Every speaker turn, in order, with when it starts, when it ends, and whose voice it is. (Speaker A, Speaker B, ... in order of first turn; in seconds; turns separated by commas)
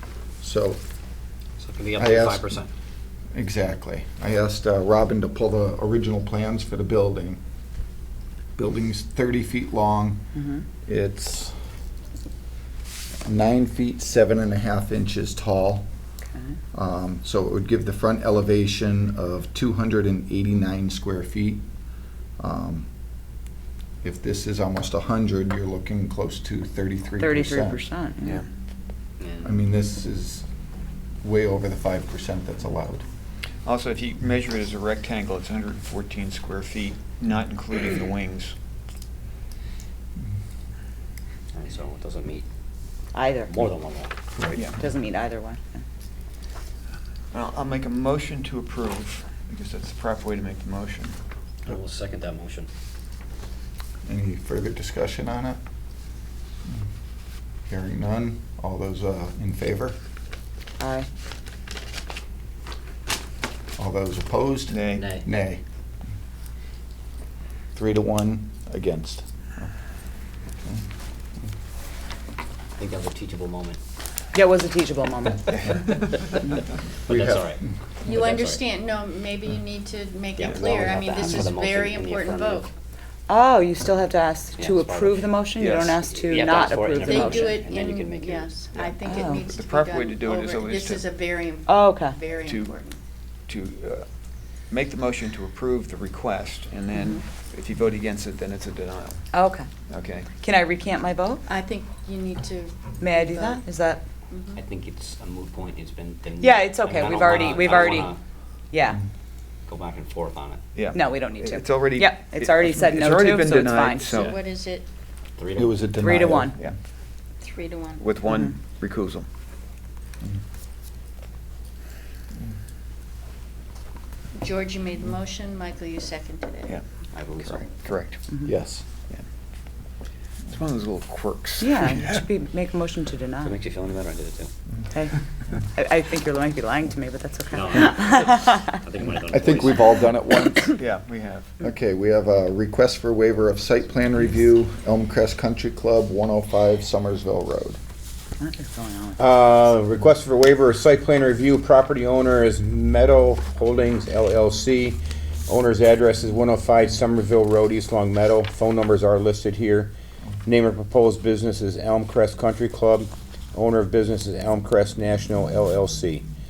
Speaker A: 0.4-0.8, Speaker B: 1.6-2.7, Speaker A: 1.9-2.6, Speaker A: 3.3-7.4, Speaker A: 8.6-10.3, Speaker C: 10.3-10.6, Speaker A: 10.8-11.6, Speaker A: 13.2-15.9, Speaker A: 16.7-21.6, Speaker A: 22.4-22.9, Speaker A: 24.0-27.8, Speaker C: 27.2-28.4, Speaker B: 29.2-29.5, Speaker A: 29.4-30.5, Speaker A: 31.2-33.0, Speaker D: 33.6-38.5, Speaker B: 41.5-42.4, Speaker C: 43.1-43.6, Speaker B: 43.5-44.1, Speaker D: 44.5-44.8, Speaker C: 44.8-45.8, Speaker D: 47.3-51.1, Speaker B: 51.6-52.7, Speaker A: 54.0-55.6, Speaker A: 57.7-60.0, Speaker C: 60.8-61.1, Speaker A: 63.8-65.6, Speaker D: 64.7-65.1, Speaker B: 64.9-65.2, Speaker A: 67.7-69.7, Speaker B: 72.8-73.8, Speaker C: 74.3-75.6, Speaker A: 77.1-77.5, Speaker B: 77.1-78.6, Speaker E: 78.0-82.7, Speaker B: 80.4-82.7, Speaker D: 80.4-80.7, Speaker C: 83.3-87.5, Speaker B: 84.6-85.3, Speaker D: 85.5-86.0, Speaker B: 86.0-88.5, Speaker E: 87.0-93.0, Speaker D: 88.7-91.0, Speaker C: 89.0-89.4, Speaker C: 91.7-92.2, Speaker D: 92.4-92.7, Speaker D: 93.5-94.0, Speaker D: 94.7-99.3, Speaker C: 99.3-99.7, Speaker D: 99.9-100.3, Speaker C: 100.4-101.4, Speaker E: 101.5-103.6, Speaker C: 103.0-104.0, Speaker E: 104.3-104.6, Speaker B: 104.5-108.2, Speaker C: 106.4-108.1, Speaker C: 108.7-109.0, Speaker B: 109.7-110.6, Speaker D: 110.7-114.3, Speaker C: 110.9-114.2, Speaker E: 114.0-114.8, Speaker B: 115.4-116.0, Speaker A: 115.5-116.6, Speaker C: 116.0-116.5, Speaker D: 116.5-116.8, Speaker E: 117.4-118.1, Speaker D: 118.0-119.3, Speaker E: 124.3-126.8, Speaker B: 127.1-127.6, Speaker D: 127.4-128.3, Speaker A: 128.4-128.8, Speaker D: 130.5-132.2, Speaker C: 131.6-133.6, Speaker B: 133.4-134.5, Speaker C: 134.9-135.2, Speaker C: 135.7-138.8, Speaker B: 137.5-140.0, Speaker A: 139.3-140.8, Speaker D: 140.8-141.5, Speaker A: 141.6-147.8, Speaker C: 148.4-149.2, Speaker F: 149.2-159.9, Speaker F: 160.4-166.2